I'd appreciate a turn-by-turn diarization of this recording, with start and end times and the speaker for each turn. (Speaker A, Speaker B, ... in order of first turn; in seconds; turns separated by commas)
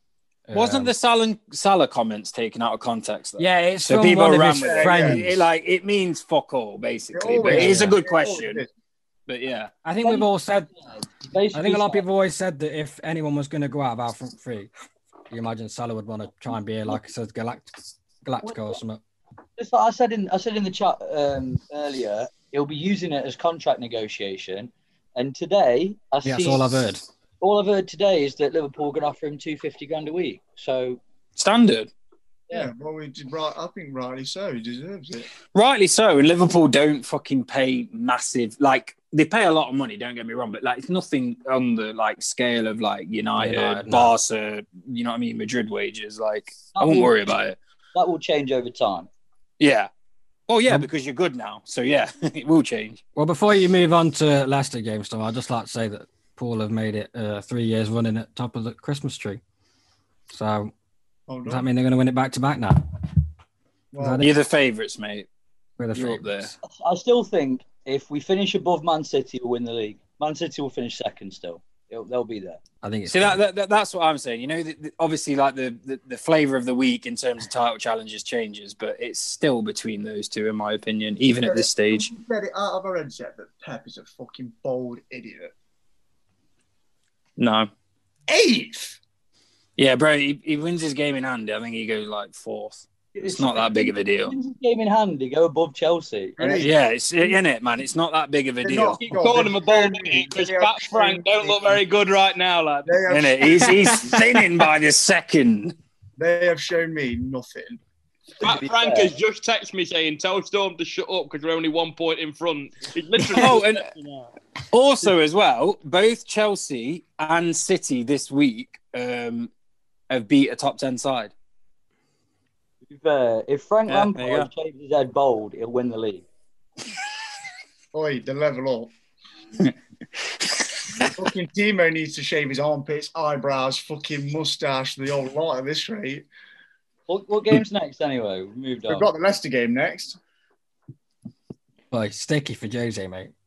Speaker A: 0.5-0.9, Speaker B: 0.5-8.7, Speaker A: 3.4-5.3, Speaker C: 4.6-5.3, Speaker C: 7.1-8.7, Speaker A: 7.5-8.0, Speaker B: 9.3-9.7, Speaker A: 9.8-10.7, Speaker D: 10.0-12.1, Speaker A: 11.5-14.7, Speaker A: 15.3-19.0, Speaker D: 18.4-18.8, Speaker D: 19.6-26.8, Speaker A: 26.2-27.0, Speaker D: 27.4-31.0, Speaker B: 31.4-31.9, Speaker C: 32.5-35.3, Speaker B: 35.5-47.6, Speaker A: 43.4-44.1, Speaker D: 46.8-47.4, Speaker D: 47.9-49.1, Speaker B: 49.6-49.9, Speaker B: 50.5-53.0, Speaker A: 53.2-59.4, Speaker A: 60.3-60.7, Speaker C: 61.3-61.7, Speaker A: 61.5-62.8, Speaker C: 63.9-64.3, Speaker A: 64.0-64.3, Speaker B: 64.2-65.3, Speaker A: 65.8-66.5, Speaker B: 65.9-66.5, Speaker D: 66.6-72.6, Speaker A: 72.8-73.4, Speaker B: 73.1-82.1, Speaker C: 81.4-85.5, Speaker B: 87.4-87.7, Speaker C: 88.3-89.0, Speaker B: 89.8-94.3, Speaker D: 93.2-96.7, Speaker C: 96.4-96.7, Speaker B: 96.6-99.0, Speaker C: 98.6-101.8, Speaker E: 99.0-103.0, Speaker C: 102.9-104.0, Speaker B: 103.1-105.8, Speaker C: 106.2-107.8, Speaker E: 108.4-114.3, Speaker D: 108.4-109.1, Speaker B: 113.3-113.9, Speaker B: 114.7-119.5, Speaker B: 120.1-121.3, Speaker D: 122.9-126.3, Speaker B: 123.9-124.5, Speaker C: 127.9-128.9, Speaker B: 130.4-131.1, Speaker C: 131.1-136.3, Speaker D: 137.1-139.1, Speaker C: 138.9-140.2, Speaker A: 141.9-143.3